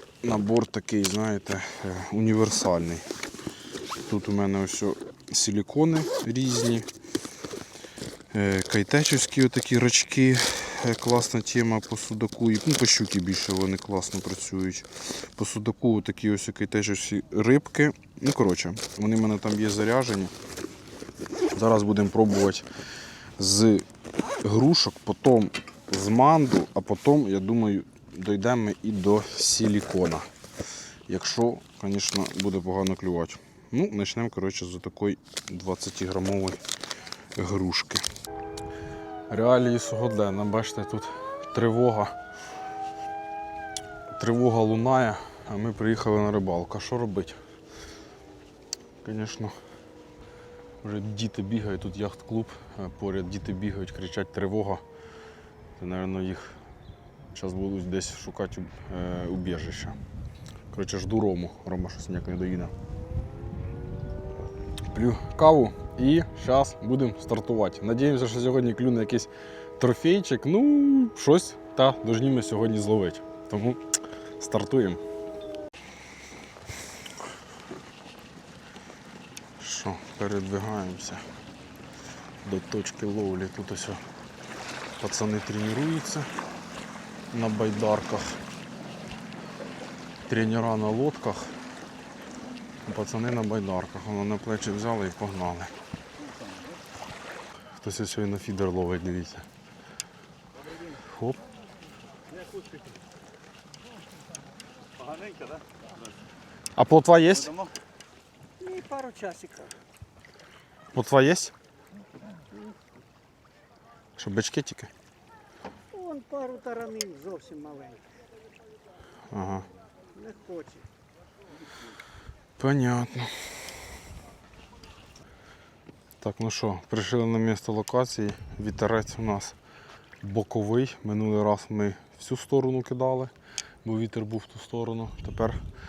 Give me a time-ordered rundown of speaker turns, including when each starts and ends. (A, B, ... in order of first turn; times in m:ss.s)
0:00.2-0:03.1 A
0:04.0-0:06.9 A
0:08.3-0:20.3 A
0:21.5-0:22.7 A
0:23.4-0:30.3 A
0:31.1-0:36.6 A
0:37.4-0:38.0 A
0:39.3-0:42.1 A
0:44.1-0:47.4 A
0:49.0-0:49.6 A
0:50.8-0:54.8 A
0:55.8-0:56.6 A
0:57.3-1:00.0 A
1:00.7-1:02.7 A
1:04.9-1:13.8 A
1:14.4-1:15.0 A
1:19.6-1:21.2 A
1:22.4-1:24.0 A
1:25.0-1:26.3 A
1:27.3-1:28.4 A
1:30.3-1:31.6 A
1:32.8-1:35.7 A
1:36.2-1:36.8 B
1:37.8-1:39.4 A
1:41.0-1:41.4 A
1:42.3-1:42.9 B
1:45.0-1:46.0 B
1:46.8-1:47.5 A
1:47.3-1:47.7 B
1:48.6-1:49.7 C
1:50.9-1:51.5 A
1:54.2-1:54.9 A
1:55.9-1:58.0 C
1:59.3-1:59.6 A
2:00.1-2:00.9 C
2:02.6-2:03.5 A
2:06.2-2:09.6 A
2:10.2-2:13.3 A
2:13.8-2:15.6 A